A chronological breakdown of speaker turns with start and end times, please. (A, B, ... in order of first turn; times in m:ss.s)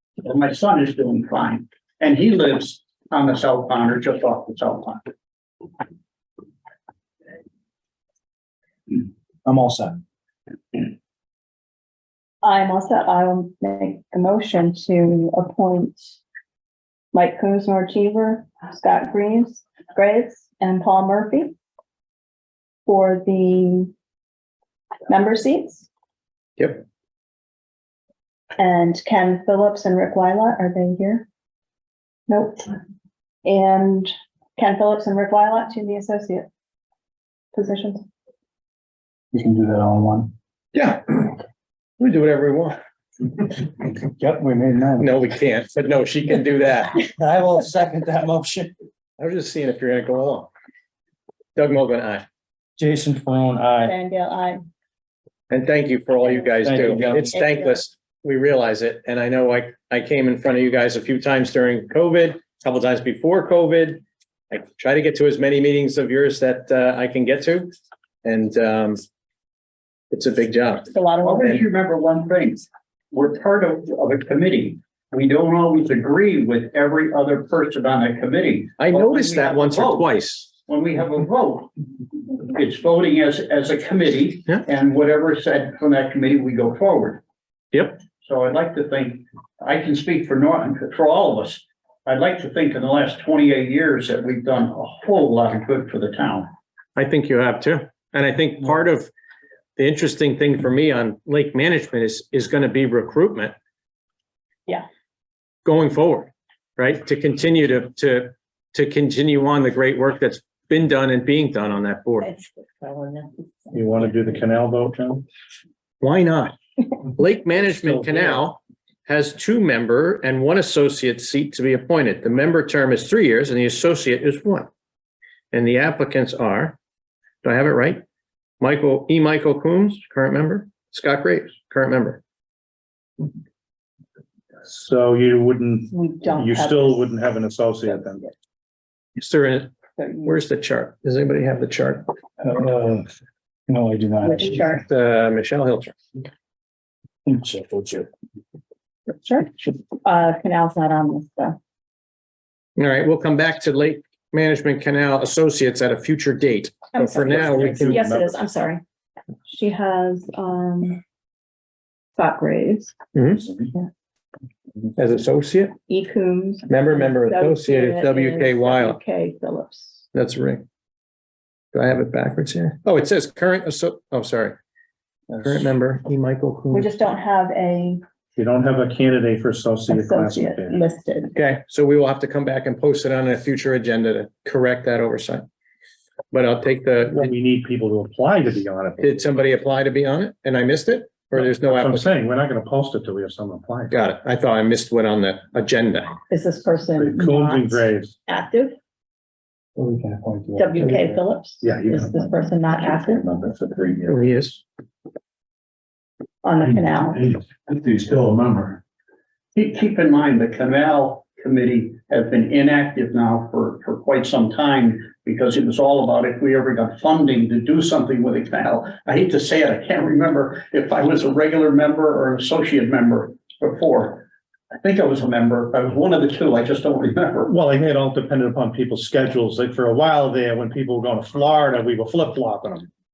0:00.2-0:05.0 A
0:09.4-0:10.0 B
0:12.4-0:16.2 C
0:17.1-0:21.5 C
0:22.8-0:23.9 C
0:25.1-0:25.9 C
0:26.6-0:26.8 D
0:28.6-0:31.3 C
0:32.3-0:32.7 C
0:33.4-0:36.5 C
0:37.5-0:38.1 C
0:39.3-0:40.3 B
0:40.7-0:41.3 D
0:42.0-0:42.8 D
0:44.0-0:45.1 B
0:45.0-0:47.0 D
0:47.0-0:48.7 B
0:49.2-0:50.5 D
0:51.6-0:52.2 D
0:52.8-0:54.0 B
0:53.8-0:54.6 C
0:55.5-1:07.7 D
0:56.6-0:57.4 B
0:57.3-0:57.8 C
1:08.2-1:09.0 D
1:10.1-1:10.9 D
1:10.9-1:11.6 C
1:11.2-1:21.7 A
1:18.8-1:20.5 D
1:22.3-1:27.2 A
1:27.7-1:28.0 D
1:28.2-1:36.5 A
1:37.0-1:39.1 D
1:39.8-1:43.5 D
1:45.6-1:52.3 D
1:52.2-1:54.4 C
1:53.7-1:55.2 E
1:56.0-1:56.5 D
1:57.2-2:04.7 D
1:57.7-1:58.5 E
2:05.5-2:06.8 D
2:07.4-2:08.0 D
2:08.6-2:12.2 D
2:14.6-2:18.2 E
2:15.9-2:17.2 C
2:17.8-2:18.3 C
2:19.2-2:19.7 D
2:20.0-2:20.4 C
2:20.2-2:22.1 D
2:22.4-2:23.1 B
2:23.7-2:24.8 B
2:24.2-2:24.8 C
2:24.9-2:26.0 D
2:27.2-2:28.1 B
2:29.2-2:31.6 C
2:32.8-2:38.0 D
2:36.9-2:38.8 C
2:37.2-2:38.4 E
2:39.4-2:41.0 C
2:42.2-2:42.9 C
2:43.1-2:43.4 D
2:45.0-2:45.7 D
2:45.9-2:50.0 C
2:46.7-2:49.0 D
2:50.1-2:50.6 D
2:51.7-2:54.6 D
2:55.3-2:57.0 D
2:56.7-2:58.0 C
2:58.4-3:00.8 E
2:59.9-3:01.3 C
3:01.3-3:05.4 D
3:06.3-3:07.3 D
3:07.1-3:09.2 E
3:09.0-3:12.1 D
3:11.3-3:13.9 E
3:13.9-3:16.1 D
3:16.3-3:18.7 C
3:17.0-3:18.2 E
3:19.8-3:20.2 B
3:19.8-3:21.0 E
3:20.6-3:23.2 C
3:21.6-3:24.2 E
3:24.1-3:24.6 D
3:26.4-3:27.2 C
3:27.1-3:28.8 E
3:29.5-3:47.5 A
3:47.5-3:52.9 E